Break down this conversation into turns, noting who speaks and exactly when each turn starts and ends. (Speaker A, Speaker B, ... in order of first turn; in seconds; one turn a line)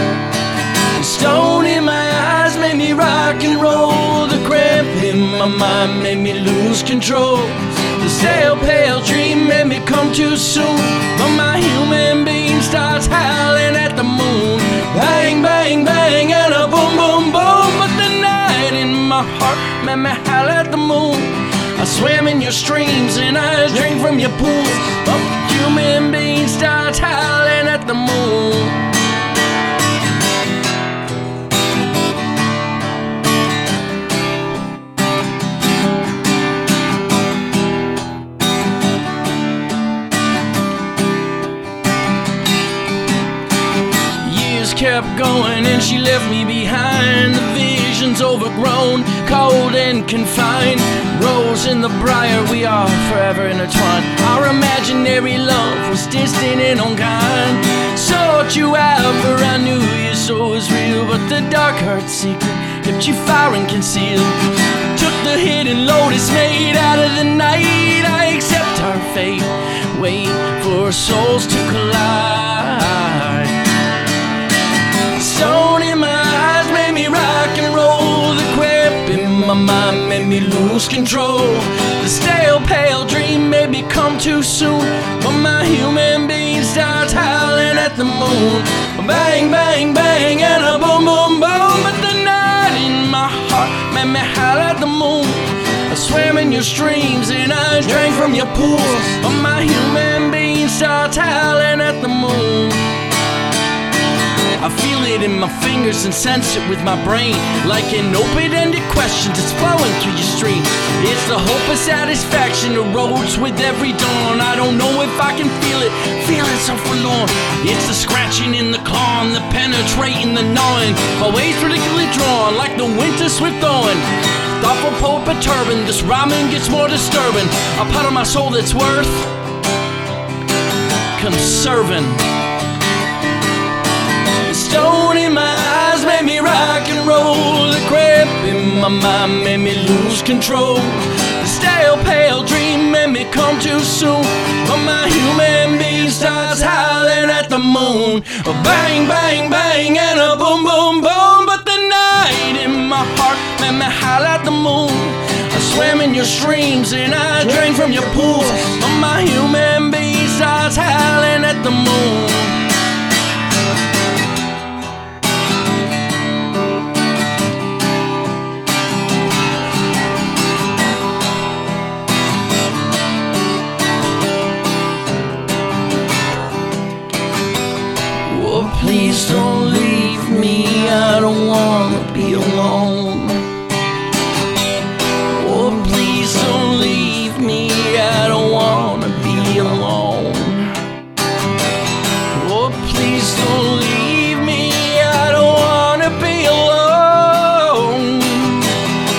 Speaker A: 0.9-28.9
Speaker A: 44.2-73.5
Speaker A: 75.2-102.8
Speaker A: 104.6-129.3
Speaker A: 131.2-132.2
Speaker A: 134.4-162.6
Speaker A: 178.2-183.4
Speaker A: 185.3-190.7
Speaker A: 192.3-198.7